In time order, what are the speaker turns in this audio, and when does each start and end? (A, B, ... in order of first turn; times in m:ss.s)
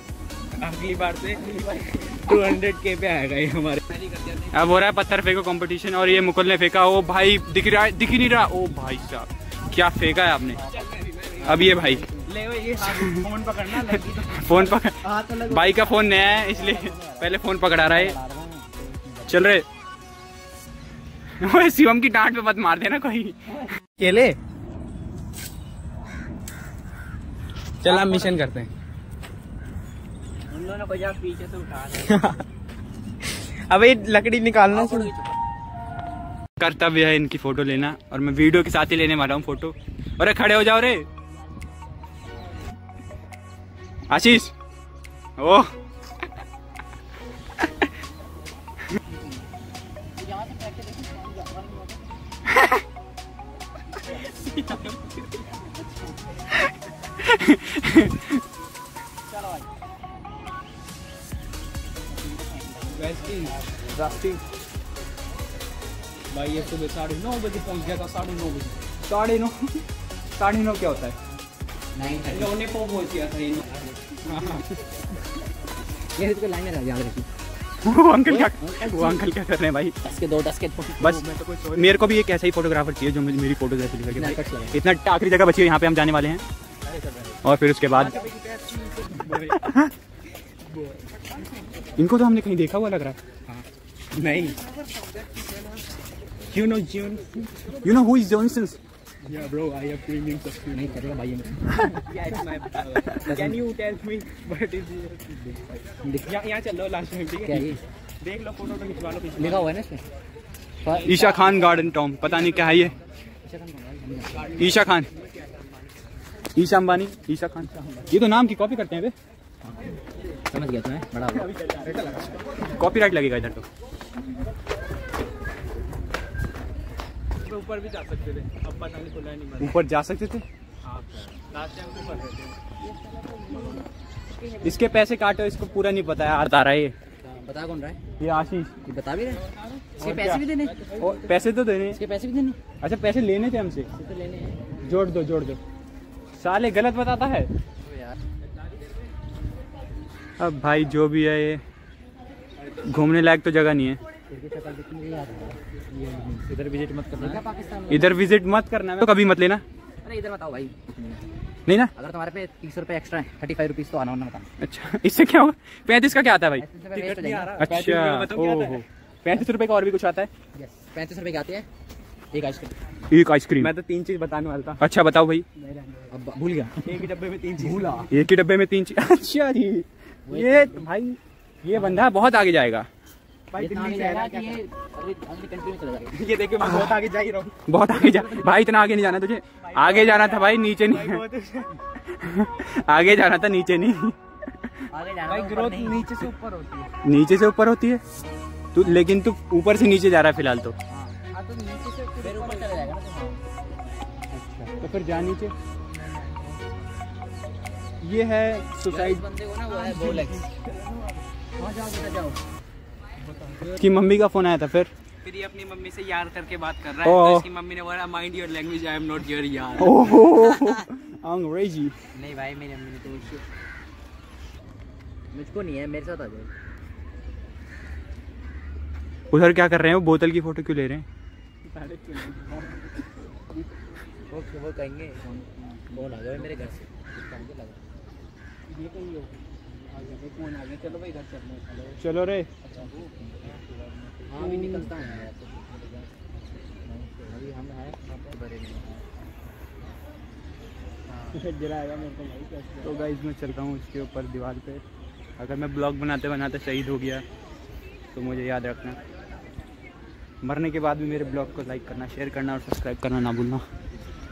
0:00.6-0:04.5 A
0:01.5-0:02.0 B
0:04.5-0:10.6 C
0:10.6-0:12.2 B
0:10.7-0:15.5 A
0:11.4-0:12.0 C
0:14.2-0:18.2 C
0:15.5-0:19.5 B
0:19.3-0:19.6 C
0:21.4-0:23.4 C
0:24.0-0:24.4 A
0:27.8-0:28.7 A
0:27.8-0:28.4 B
0:30.5-0:32.2 B
0:32.0-0:32.4 A
0:33.3-0:35.1 A
0:34.7-0:35.3 B
0:36.6-0:41.0 C
0:44.1-0:44.5 C
0:45.4-0:45.7 C
0:50.2-0:52.0 B
0:54.4-0:55.1 A
0:57.2-0:58.4 C
1:02.5-1:03.0 B
1:02.9-1:03.5 A
1:03.9-1:04.4 C
1:06.3-1:08.8 A
1:09.0-1:09.8 C
1:10.4-1:11.2 C
1:11.9-1:12.5 B
1:12.3-1:14.7 A
1:16.1-1:17.2 B
1:17.8-1:20.0 C
1:18.2-1:19.3 B
1:20.0-1:21.2 B
1:21.0-1:26.4 C
1:21.0-1:22.1 A
1:24.1-1:24.8 B
1:27.4-1:28.2 C
1:27.9-1:29.6 A
1:29.6-1:29.9 C
1:30.6-1:31.2 A
1:32.0-1:33.2 C
1:33.5-1:34.7 A
1:35.2-1:35.7 A
1:36.5-1:37.8 A
1:37.8-1:38.8 C
1:39.2-1:41.0 A
1:40.7-1:41.7 B
1:42.0-1:45.6 A
1:43.2-1:43.6 B
1:46.2-1:49.7 A
1:47.4-1:47.8 B
1:49.4-1:50.0 B
1:50.8-1:51.2 B
1:50.9-1:52.9 A
1:51.0-1:52.9 C
1:53.4-1:54.5 B
1:54.4-1:54.9 A
1:54.6-1:55.1 C
1:56.6-1:59.1 C
2:00.5-2:01.5 B
2:01.4-2:02.4 A
2:02.7-2:03.6 C
2:07.4-2:09.8 A
2:09.6-2:10.4 C
2:10.8-2:12.6 A
2:13.5-2:13.8 A
2:14.6-2:16.9 C
2:17.2-2:18.0 B
2:18.2-2:18.8 C
2:18.8-2:19.4 B
2:19.5-2:21.3 A
2:20.0-2:20.7 B
2:20.0-2:20.4 C
2:21.0-2:22.0 C
2:21.9-2:22.6 B
2:22.8-2:23.9 C
2:23.9-2:24.6 B
2:24.8-2:25.6 C
2:26.4-2:27.5 C
2:27.8-2:28.2 B
2:30.4-2:31.6 C
2:32.6-2:33.0 A
2:32.8-2:34.0 C
2:34.3-2:35.6 B
2:36.1-2:38.3 B
2:37.1-2:37.4 A
2:37.9-2:39.6 C
2:40.0-2:41.3 B
2:41.7-2:41.9 C
2:41.9-2:44.5 B
2:44.6-2:46.6 C
2:46.5-2:47.7 B
2:46.9-2:48.8 A
2:47.6-2:50.3 C
2:50.5-2:51.7 B
2:52.3-2:52.7 B
2:53.1-2:53.7 C
2:53.6-2:54.8 A
2:54.8-2:55.4 C
2:55.6-2:56.1 A
2:56.1-2:56.9 B
2:56.8-2:58.1 A
2:57.6-3:02.9 C
3:00.3-3:00.9 B
3:01.7-3:02.1 B
3:03.5-3:04.6 A
3:03.6-3:06.1 B
3:06.1-3:07.6 A
3:07.7-3:11.2 C
3:07.9-3:08.7 B
3:09.7-3:11.7 A
3:12.1-3:14.2 C
3:14.9-3:16.1 B
3:15.3-3:16.9 A
3:17.0-3:18.0 C
3:18.7-3:20.8 C
3:20.9-3:21.2 B
3:21.3-3:22.9 A
3:22.2-3:23.4 B
3:24.3-3:25.5 C
3:28.0-3:29.2 C
3:28.9-3:30.4 B
3:29.7-3:31.2 A
3:30.0-3:30.3 C
3:31.6-3:32.4 B
3:33.3-3:33.8 A
3:33.8-3:34.9 C
3:35.2-3:40.2 A
3:37.0-3:37.5 C
3:39.8-3:40.8 B
3:39.8-3:41.9 C
3:42.1-3:43.4 B
3:45.3-3:46.5 B
3:49.3-3:51.0 C
3:51.6-3:53.6 A
3:54.3-3:57.8 B
3:56.0-3:56.7 A
3:58.7-4:02.0 A
4:02.0-4:02.5 C
4:02.6-4:05.3 A
4:02.9-4:03.6 B
4:04.3-4:06.1 B
4:06.8-4:09.0 B
4:11.3-4:13.0 A
4:12.8-4:14.8 C
4:15.4-4:17.2 C
4:18.1-4:19.0 C
4:20.4-4:23.6 C